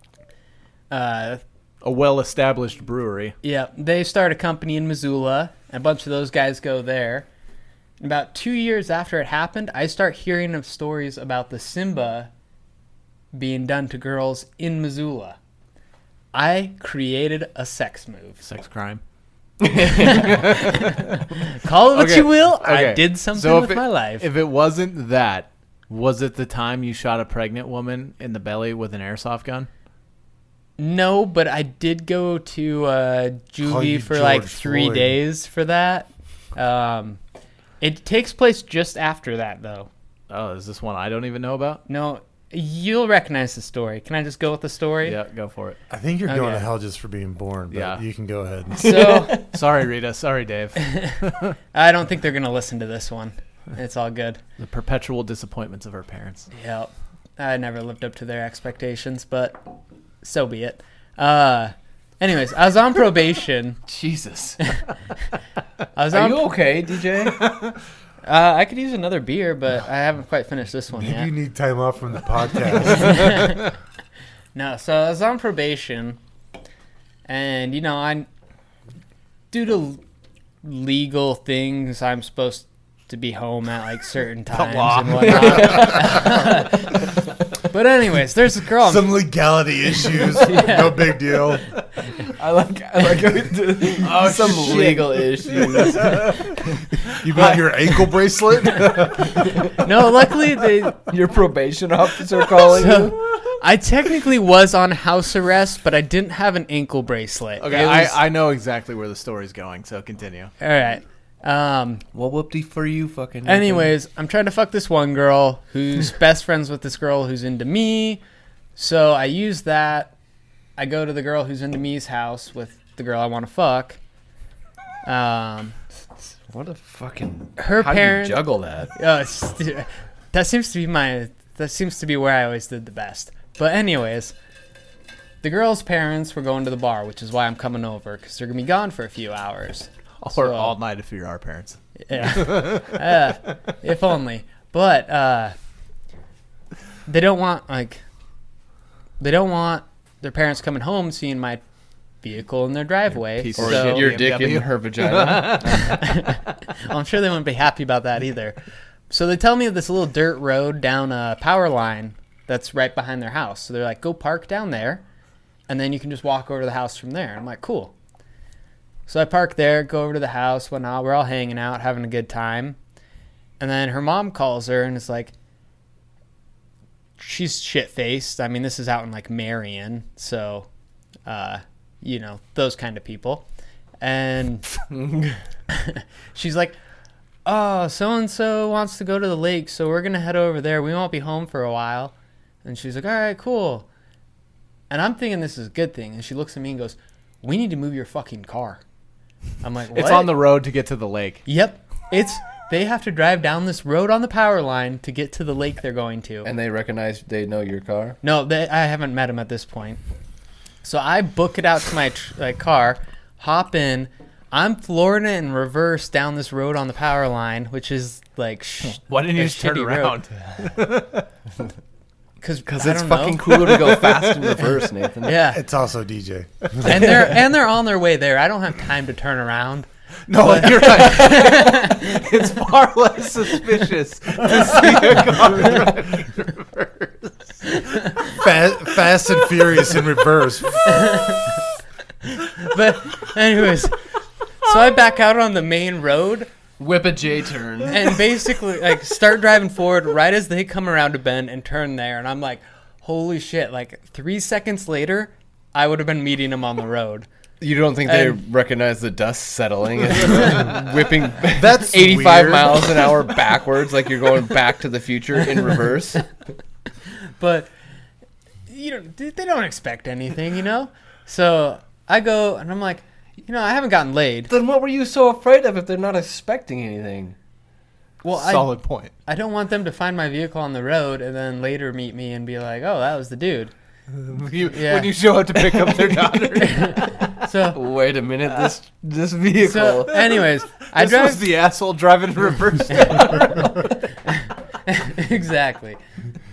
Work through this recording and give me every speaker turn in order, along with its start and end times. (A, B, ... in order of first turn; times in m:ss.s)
0:00.9-0:01.4 A
0:01.8-0:03.3 B
0:03.4-0:07.3 A
0:08.0-0:12.3 A
0:13.3-0:15.4 A
0:16.3-0:18.4 A
0:18.4-0:19.0 B
0:19.6-0:20.4 C
0:20.0-0:24.3 A
0:20.0-0:21.2 B
0:21.9-0:29.7 B
0:30.8-0:37.2 A
0:33.6-0:35.2 D
0:37.8-0:39.9 A
0:40.3-0:41.8 B
0:41.9-0:45.2 A
0:45.0-0:45.8 B
0:45.9-0:48.9 D
0:46.2-0:46.7 A
0:47.7-0:48.0 B
0:48.8-0:49.4 A
0:48.8-0:49.5 C
0:49.5-0:51.5 B
0:51.7-0:54.4 A
0:54.6-0:56.5 B
0:56.5-0:59.6 A
1:00.2-1:03.8 A
1:03.9-1:04.6 C
1:05.9-1:06.5 A
1:06.1-1:07.5 C
1:08.2-1:11.3 A
1:11.0-1:13.4 D
1:12.8-1:13.7 A
1:14.5-1:16.2 A
1:17.3-1:18.3 A
1:19.5-1:20.0 A
1:20.6-1:27.1 A
1:24.5-1:25.9 B
1:25.1-1:26.5 C
1:27.6-1:29.2 A
1:28.8-1:31.7 D
1:30.2-1:31.0 A
1:32.4-1:36.4 C
1:34.0-1:36.4 B
1:37.0-1:39.5 D
1:37.4-1:37.6 B
1:39.7-1:41.0 A
1:41.0-1:43.2 C
1:42.6-1:48.2 A
1:47.6-1:50.5 B
1:50.6-1:52.0 A
1:52.1-1:53.9 C
1:53.4-1:58.2 A
1:58.8-2:00.1 A
2:00.8-2:04.0 A
2:05.0-2:05.8 A
2:06.5-2:08.9 C
2:07.6-2:14.3 A
2:15.4-2:20.7 A
2:20.2-2:23.0 B
2:22.0-2:25.5 A
2:27.1-2:28.0 A
2:29.2-2:31.6 A
2:32.2-2:34.1 A
2:33.1-2:35.9 B
2:33.6-2:36.0 C
2:35.7-2:45.0 A
2:45.7-2:47.9 A
2:49.1-2:52.8 A
2:53.6-2:55.3 A
2:57.2-3:00.7 A
3:01.2-3:03.5 A
3:04.0-3:04.6 A
3:04.9-3:05.4 C
3:05.7-3:06.8 A
3:07.4-3:13.9 A
3:14.9-3:18.8 A
3:19.6-3:20.4 A
3:19.9-3:21.4 B
3:21.4-3:26.5 A
3:26.4-3:28.2 C
3:28.2-3:30.0 A
3:30.8-3:40.2 A
3:38.9-3:41.2 B
3:42.4-3:43.8 A
3:42.6-3:45.5 C
3:43.6-3:44.8 B
3:45.2-3:45.6 A
3:45.5-3:47.0 D
3:46.8-3:52.2 A
3:50.3-3:57.8 B
3:57.8-3:58.2 A
3:58.3-4:01.2 D
4:00.8-4:01.5 A
4:02.3-4:04.0 A
4:04.6-4:06.5 A
4:06.8-4:08.2 C
4:07.9-4:17.3 A
4:17.6-4:26.2 C
4:18.0-4:18.4 A
4:21.5-4:23.2 D
4:27.4-4:27.7 A
4:28.7-4:34.5 A
4:34.5-4:37.4 C
4:38.2-4:43.7 A
4:38.3-4:39.1 B
4:44.2-4:47.2 B
4:44.7-4:45.1 A
4:46.6-4:47.8 A
4:47.7-4:50.2 C
4:49.6-4:51.5 A
4:50.9-4:53.8 B
4:53.2-4:53.7 A
4:54.3-4:56.0 A